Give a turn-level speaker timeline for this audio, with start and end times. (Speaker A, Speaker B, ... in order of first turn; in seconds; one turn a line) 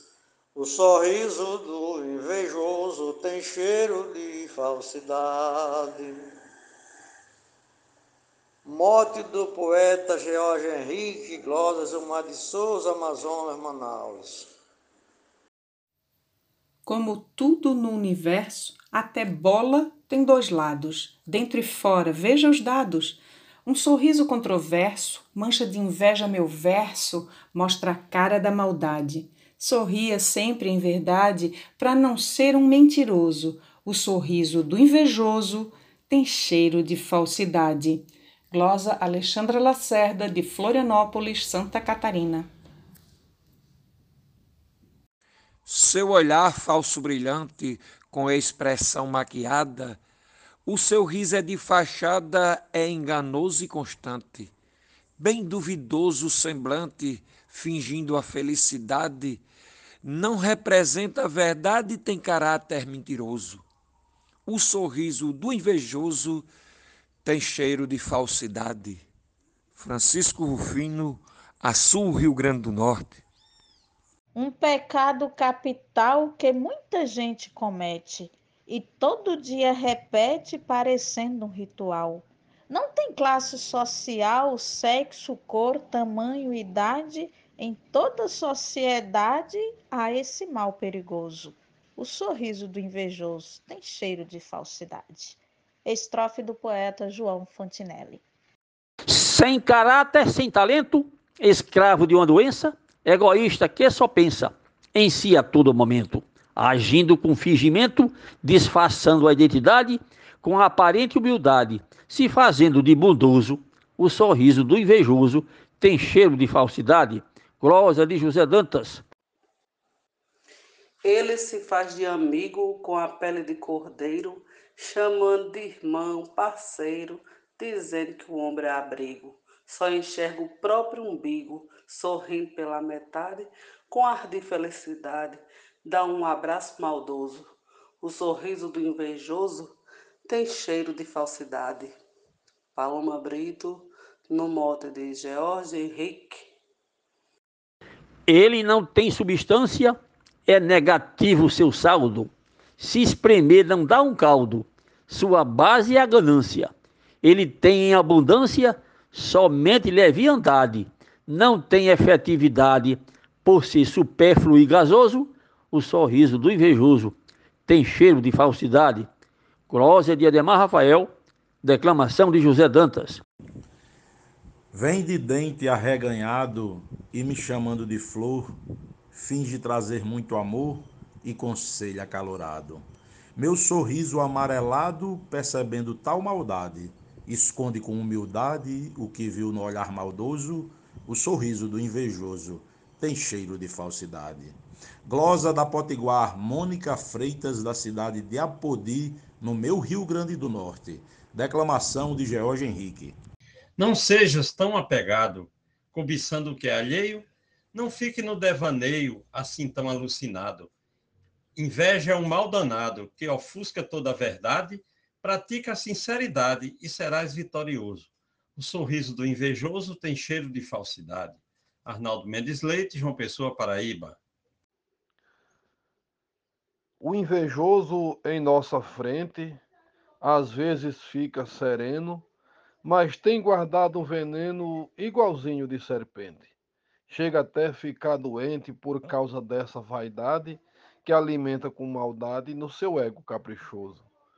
Speaker A: 0.5-6.3
Speaker A: 8.6-14.5
Speaker B: 16.9-42.5
Speaker C: 45.7-50.0
Speaker C: 50.7-54.5
Speaker C: 55.2-59.4
Speaker C: 60.0-63.6
Speaker C: 64.5-66.4
Speaker C: 67.2-69.0
Speaker C: 69.8-73.2
Speaker D: 74.3-98.2
Speaker E: 99.1-119.0
Speaker F: 121.0-141.9
Speaker F: 142.8-146.5
Speaker E: 148.3-156.7
Speaker E: 157.2-167.2
Speaker E: 167.7-169.1
Speaker E: 169.7-171.1
Speaker E: 171.6-173.2
Speaker G: 174.7-178.6
Speaker G: 179.1-182.8
Speaker G: 183.3-203.2
Speaker H: 203.8-210.7
Speaker H: 211.6-224.2
Speaker I: 227.0-229.6
Speaker I: 230.2-232.2
Speaker I: 232.8-236.5
Speaker I: 237.1-244.0